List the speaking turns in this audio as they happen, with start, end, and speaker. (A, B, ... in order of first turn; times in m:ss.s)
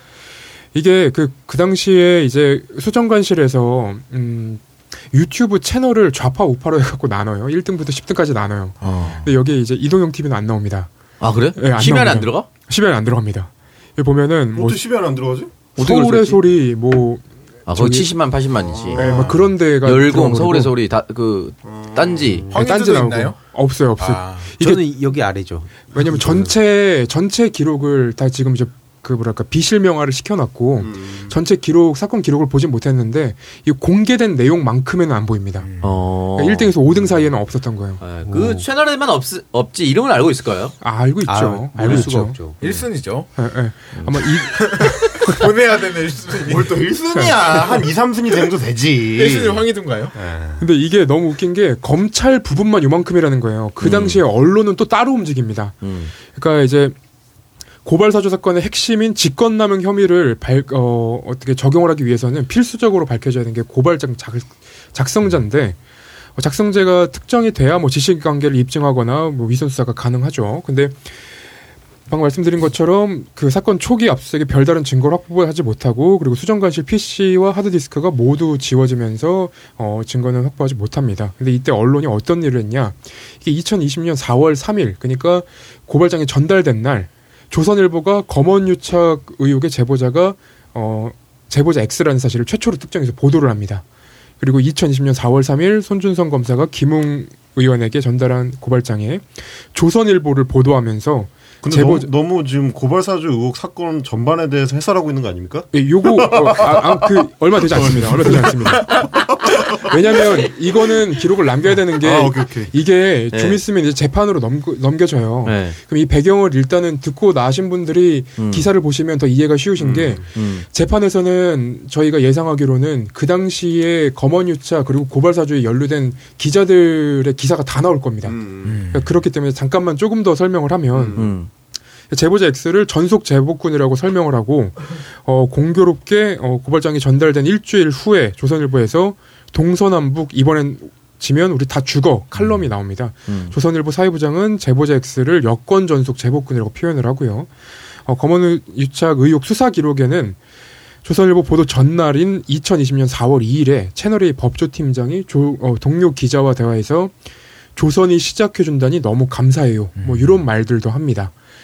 0:00.7-0:10.9 A
0:08.8-0:09.3 B
0:11.2-0:12.5 C
0:11.6-0:14.8 A
0:14.5-0:15.6 D
0:15.8-0:18.1 A
0:15.8-0:16.4 C
0:17.7-0:22.4 C
0:18.6-0:19.6 D
0:18.9-0:20.7 A
0:21.6-0:22.4 D
0:22.5-0:23.4 B
0:22.5-0:24.8 A
0:24.0-0:24.5 B
0:24.6-0:26.5 E
0:25.9-0:35.7 A
0:30.8-0:31.3 D
0:35.6-0:36.1 B
0:35.8-0:36.7 C
0:36.4-0:38.0 A
0:38.0-0:40.8 C
0:38.3-0:38.7 E
0:40.8-0:42.4 A
0:41.3-0:42.6 E
0:42.0-0:43.3 B
0:43.4-0:45.4 A
0:44.6-0:47.7 B
0:46.4-0:49.6 D
0:49.2-0:50.1 B
0:50.1-0:50.6 D
0:50.6-0:57.0 A
0:53.8-0:54.2 C
0:55.8-0:56.1 C
0:57.8-1:05.8 A
1:06.4-1:11.1 A
1:12.1-1:33.8 A
1:34.4-1:42.1 A
1:41.6-1:50.0 D
1:45.7-1:49.0 A
1:49.8-2:08.4 A
1:52.0-1:52.7 D
1:53.3-1:53.6 C
1:55.4-1:55.8 C
1:58.4-1:58.7 C
1:59.8-2:00.3 D
2:00.3-2:00.7 C
2:08.2-2:08.8 D
2:08.6-2:09.1 B
2:08.9-2:11.3 A
2:10.9-2:11.3 D
2:11.2-2:11.5 C
2:12.1-2:27.5 A
2:22.4-2:22.7 B
2:23.3-2:23.6 C
2:28.1-2:30.4 A
2:31.0-2:37.1 A
2:37.8-2:41.3 A
2:40.0-2:40.4 B